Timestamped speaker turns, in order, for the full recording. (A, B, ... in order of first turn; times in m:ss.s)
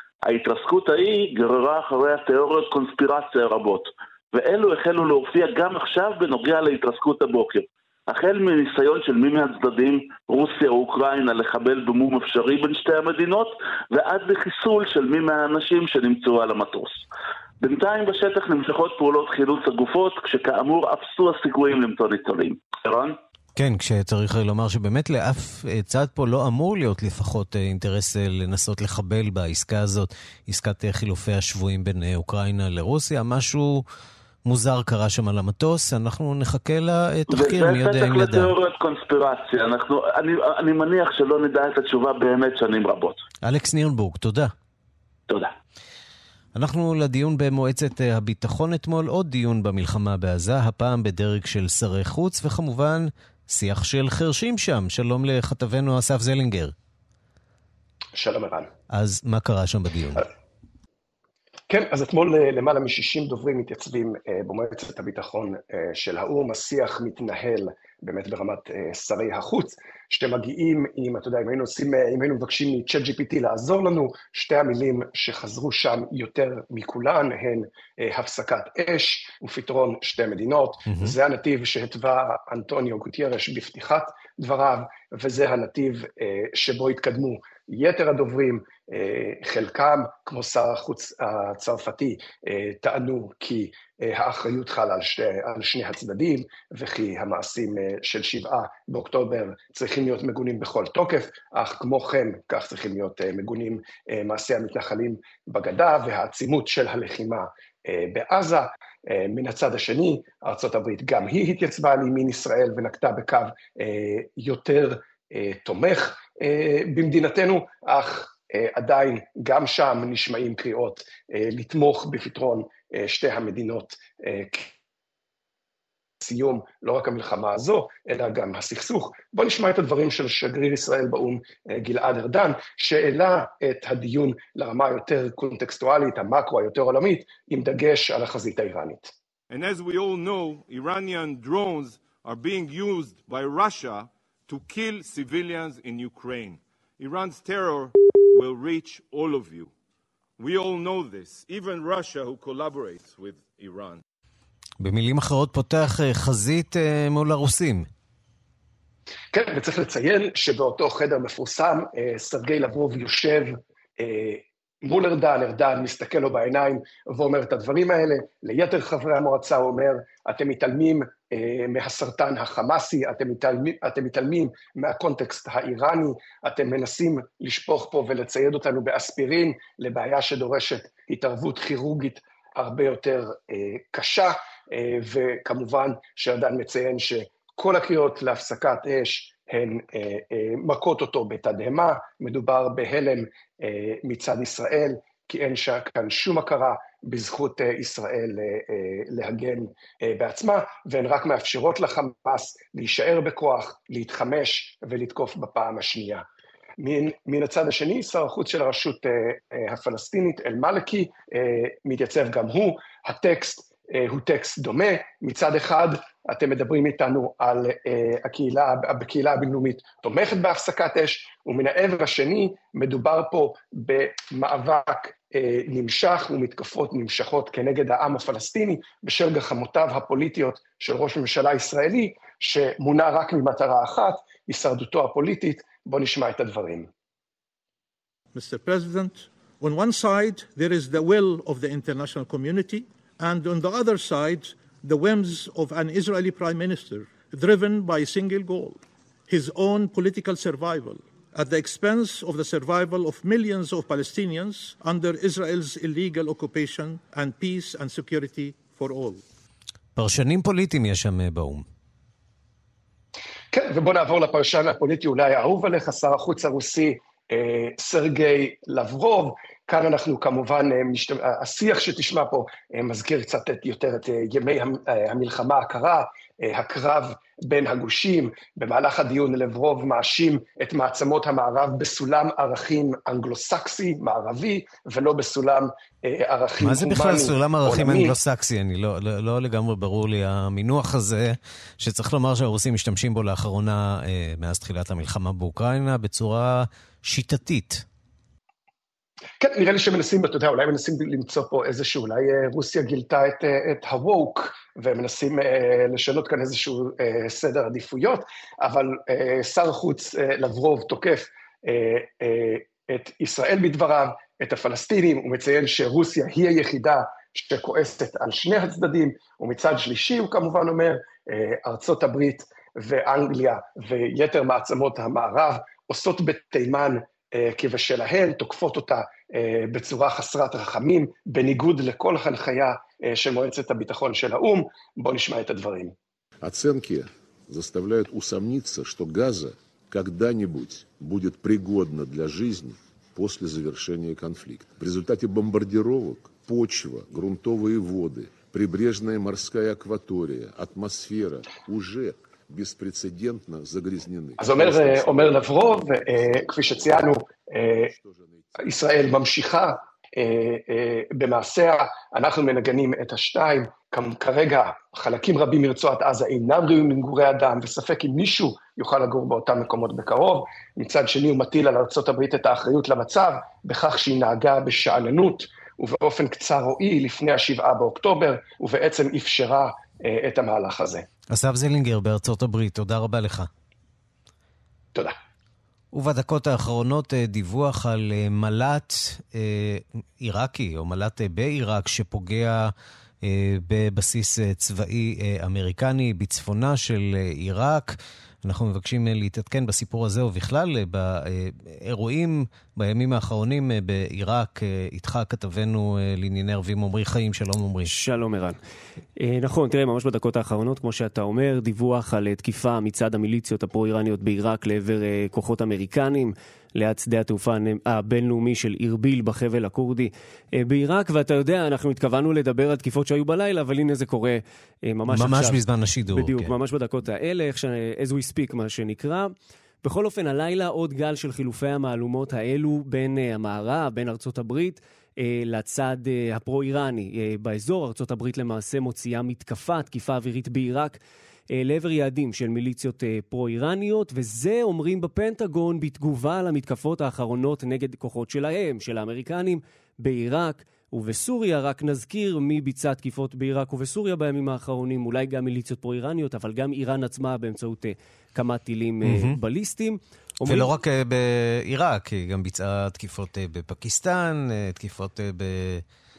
0:00.2-0:17.0 A
0:17.6-0:23.1 A
0:23.6-0:33.8 B
0:34.4-0:38.5 B
0:37.3-0:43.2 A
0:43.4-0:44.5 B
0:46.5-0:56.7 B
0:58.1-0:58.7 C
0:58.9-1:00.2 B
1:01.7-2:04.7 C
1:20.9-1:21.1 B
2:06.2-2:19.1 C
2:19.5-2:29.7 D
2:30.4-2:34.0 D
2:34.8-2:37.9 B
2:39.3-3:26.2 C
3:26.8-3:56.9 C
3:58.3-4:19.2 E
4:20.0-4:21.6 B
4:23.5-4:48.1 C
4:46.6-4:57.8 B
4:59.4-5:35.9 C
5:36.5-5:37.0 F
5:37.7-5:39.5 F
5:40.3-5:41.3 F
5:43.4-5:44.6 F
5:45.5-5:49.8 F
5:50.4-5:51.4 F
5:52.0-5:53.0 F
5:54.2-5:55.2 F
5:54.4-5:57.9 C
5:58.6-6:21.0 C
6:21.3-6:23.5 B
6:25.9-6:32.7 B
6:33.2-6:47.9 B
6:47.9-6:48.6 G
6:49.2-7:05.6 G
7:05.1-7:06.5 B
7:06.1-7:09.3 G
7:09.8-7:21.0 G
7:21.5-7:40.7 G
7:39.0-7:39.4 B
7:40.4-7:45.8 B